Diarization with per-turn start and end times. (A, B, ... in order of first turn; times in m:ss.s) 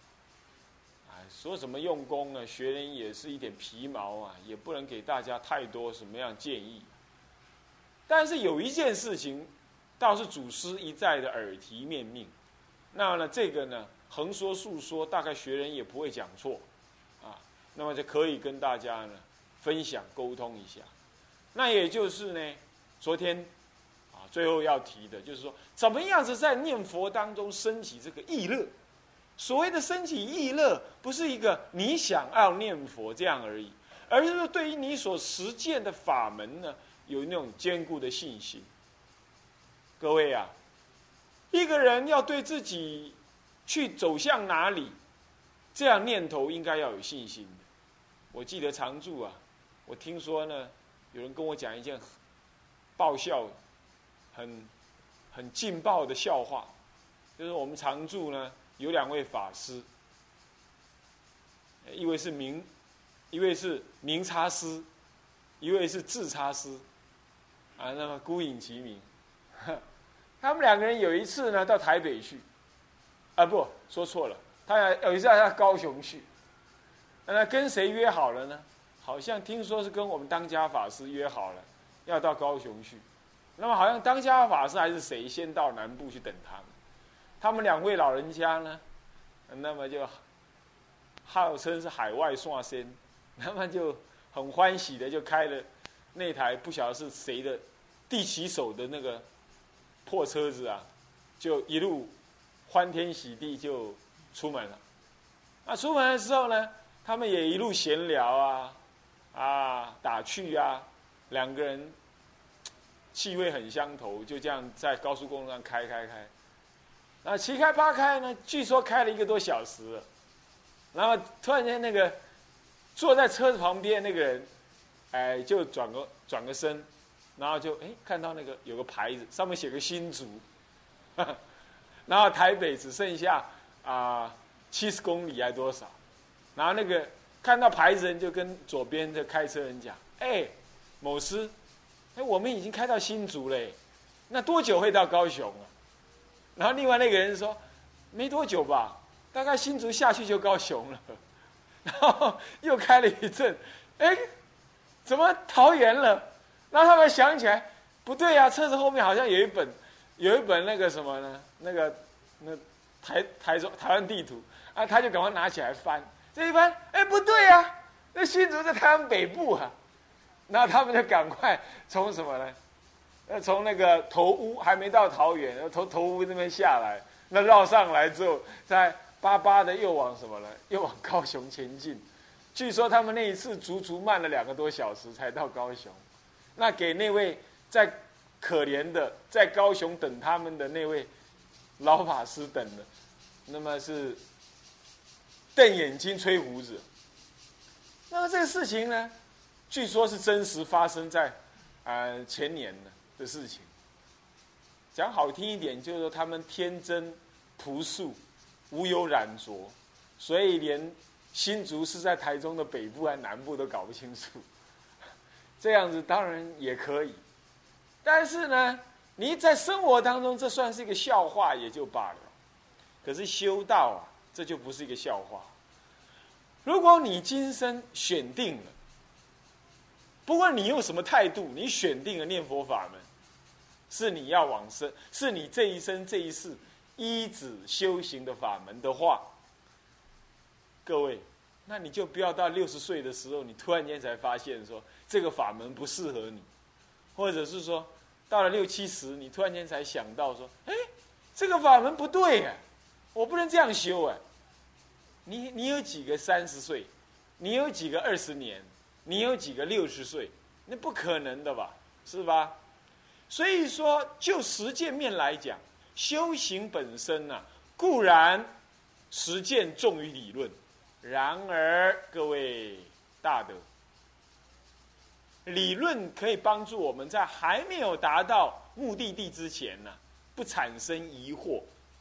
0:01.0-0:07.0 A
0:08.1-0:12.3 A
0:12.9-0:16.6 A
0:17.2-0:20.9 A
0:21.5-0:23.5 A
0:24.1-0:28.7 A
0:29.4-0:38.7 A
0:40.0-0:40.5 A
0:41.5-0:44.9 A
0:45.7-0:47.6 A
0:48.3-0:52.2 A
0:53.0-0:53.6 A
0:54.3-0:54.7 A
0:55.3-0:56.7 A
0:57.4-0:59.8 A
1:01.8-1:02.7 A
1:03.3-1:04.9 A
1:05.6-1:06.8 A
1:07.8-1:09.1 A
1:10.4-1:12.4 A
1:13.4-1:16.3 A
1:17.2-1:23.0 A
1:23.6-1:26.7 A
1:27.4-1:28.8 A
1:29.5-1:30.2 A
1:31.2-1:39.2 A
1:40.0-1:40.9 A
1:41.4-1:42.1 A
1:42.7-1:44.8 A
1:45.6-1:48.8 A
1:49.3-1:51.9 A
1:53.1-1:56.3 A
1:57.2-2:00.1 A
2:00.9-2:02.2 A
2:02.9-2:04.5 A
2:05.1-2:10.4 A
2:12.1-2:16.0 A
2:16.5-2:21.5 A
2:22.1-2:23.8 A
2:24.3-2:25.7 A
2:26.6-2:27.6 A
2:28.1-2:31.2 A
2:31.8-2:34.2 A
2:35.0-2:49.7 A
2:50.5-2:52.6 A
2:53.3-3:06.0 A
3:06.6-3:11.1 A
3:11.8-3:12.9 A
3:13.5-3:14.2 A
3:15.5-3:16.8 A
3:18.1-3:19.1 A
3:19.7-3:23.7 A
3:24.9-3:34.4 A
3:35.6-3:37.2 A
3:38.0-3:42.3 A
3:43.0-3:45.5 A
3:46.6-3:48.7 A
3:50.2-3:53.0 A
3:53.9-3:59.3 A
4:00.8-4:06.5 A
4:07.2-4:12.6 A
4:13.1-4:14.2 A
4:15.2-4:22.6 A
4:23.3-4:28.5 A
4:29.1-4:33.6 A
4:35.4-4:41.7 A